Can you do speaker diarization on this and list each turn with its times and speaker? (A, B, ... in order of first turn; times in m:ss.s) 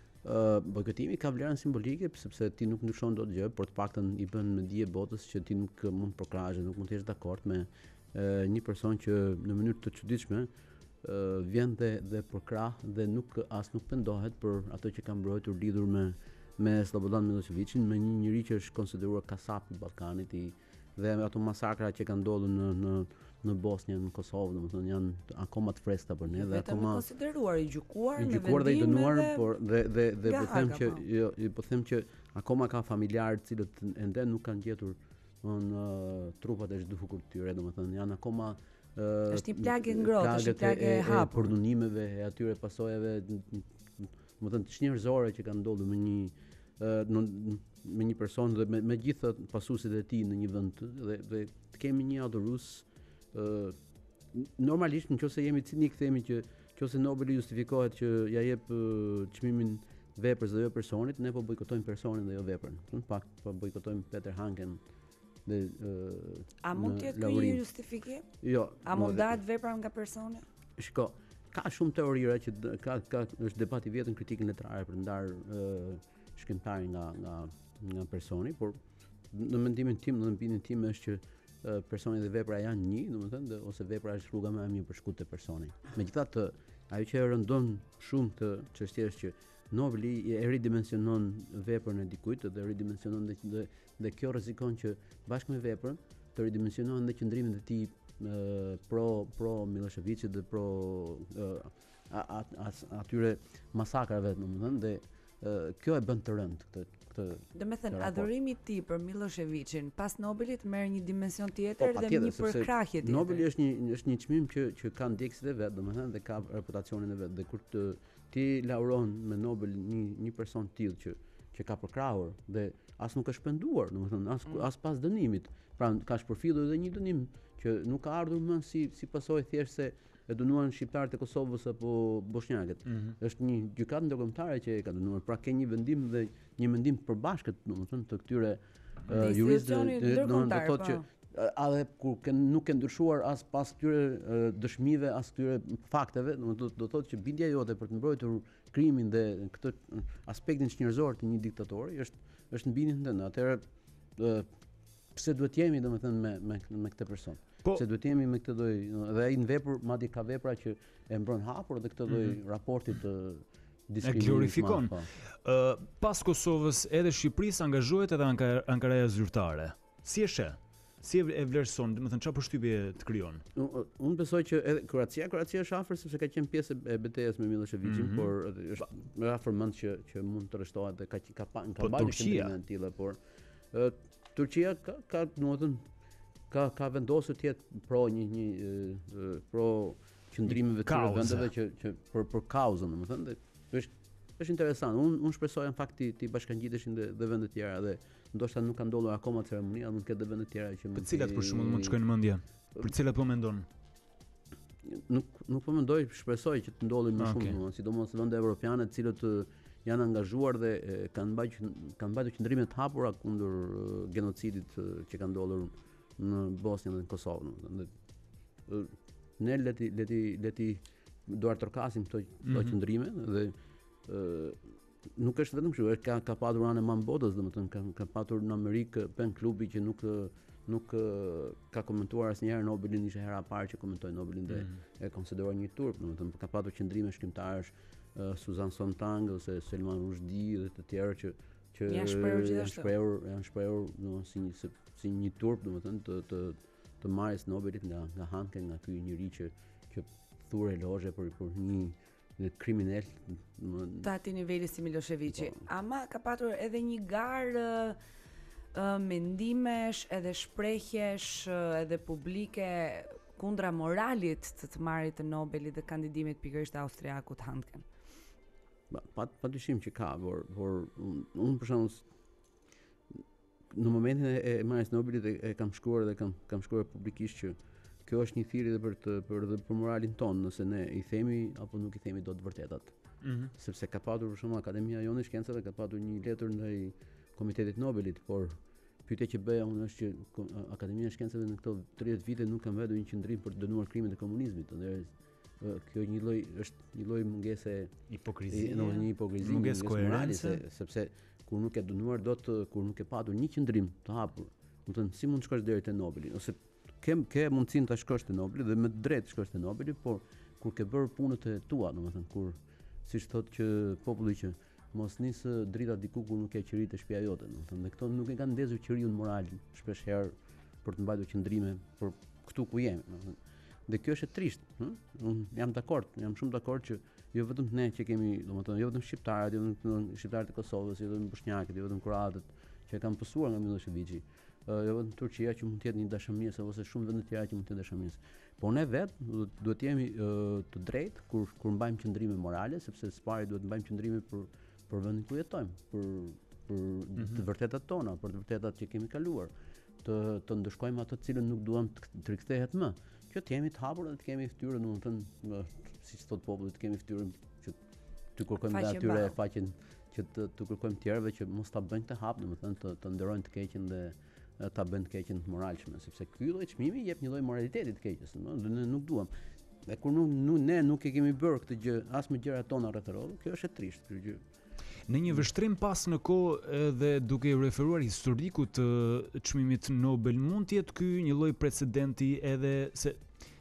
0:00.2-0:10.5 A
0:11.0-0:27.0 A
0:26.4-0:29.4 B
0:28.2-0:53.8 A
0:30.2-0:31.0 B
0:39.3-0:41.5 B
0:54.3-1:04.8 A
1:05.4-1:07.6 A
1:06.6-1:08.2 B
1:08.4-1:09.3 A
1:08.8-1:10.4 B
1:10.8-1:18.8 A
1:19.3-1:48.3 A
1:47.5-1:53.4 B
1:51.8-2:33.6 A
2:19.1-2:21.0 B
2:34.2-2:34.5 A
2:35.1-2:45.1 A
2:44.0-2:53.4 C
2:53.5-3:03.2 A
2:57.8-2:58.3 C
3:01.8-3:02.5 C
3:03.7-3:05.8 A
3:06.5-3:22.0 A
3:10.5-3:11.5 C
3:20.9-3:23.6 C
3:24.8-3:37.9 A
3:27.2-3:27.6 C
3:38.7-3:43.5 A
3:42.5-3:42.8 C
3:44.0-4:14.1 A
4:01.9-4:02.9 B
4:14.0-4:18.0 B
4:15.3-4:15.6 A
4:18.7-4:27.8 B
4:28.9-4:32.1 A
4:33.7-4:42.9 A
4:43.2-4:43.5 C
4:43.5-4:55.1 A
4:55.6-4:57.9 A
4:58.1-5:00.6 C
4:58.5-5:49.5 A
5:50.0-5:57.8 A
5:58.3-6:09.3 A
5:58.6-5:59.3 B
6:09.8-6:14.4 A
6:15.1-6:23.2 C